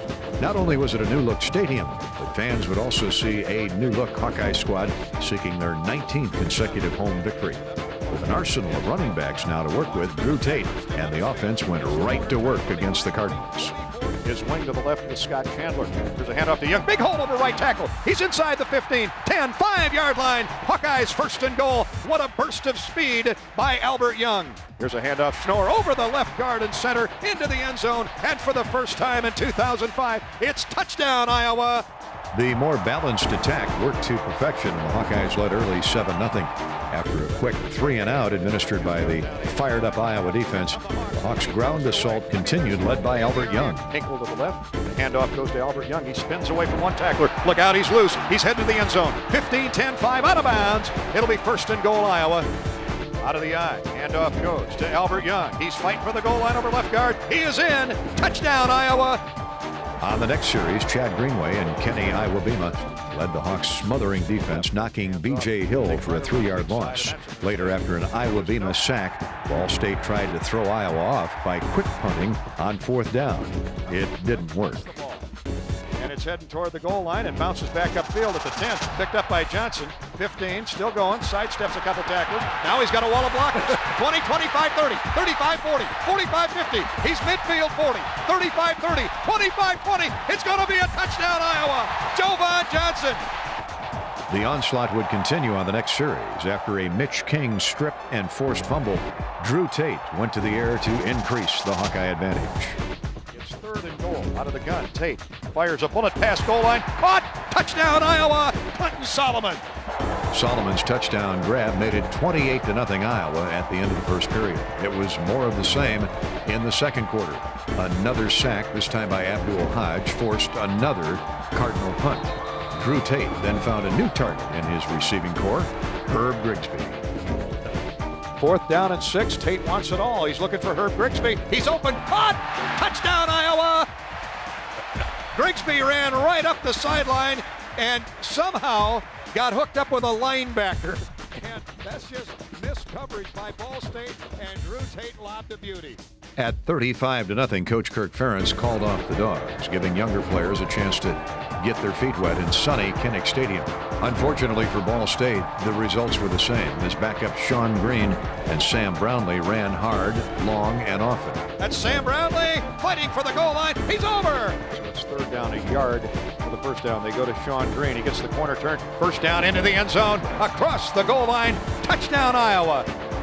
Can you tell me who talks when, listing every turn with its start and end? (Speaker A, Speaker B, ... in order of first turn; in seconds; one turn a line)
Speaker A: 0.4-13.7
Speaker B: 3.2-5.2
Speaker B: 6.4-31.9
Speaker A: 32.3-43.9
Speaker B: 37.4-52.5
Speaker B: 53.2-59.2
Speaker A: 60.0-74.9
Speaker B: 64.2-68.8
Speaker B: 73.9-75.3
Speaker B: 76.0-93.2
Speaker A: 94.3-102.8
Speaker B: 103.3-109.6
Speaker A: 110.3-127.0
Speaker B: 128.4-133.9
Speaker B: 135.3-146.0
Speaker A: 146.4-161.5
Speaker B: 161.6-172.9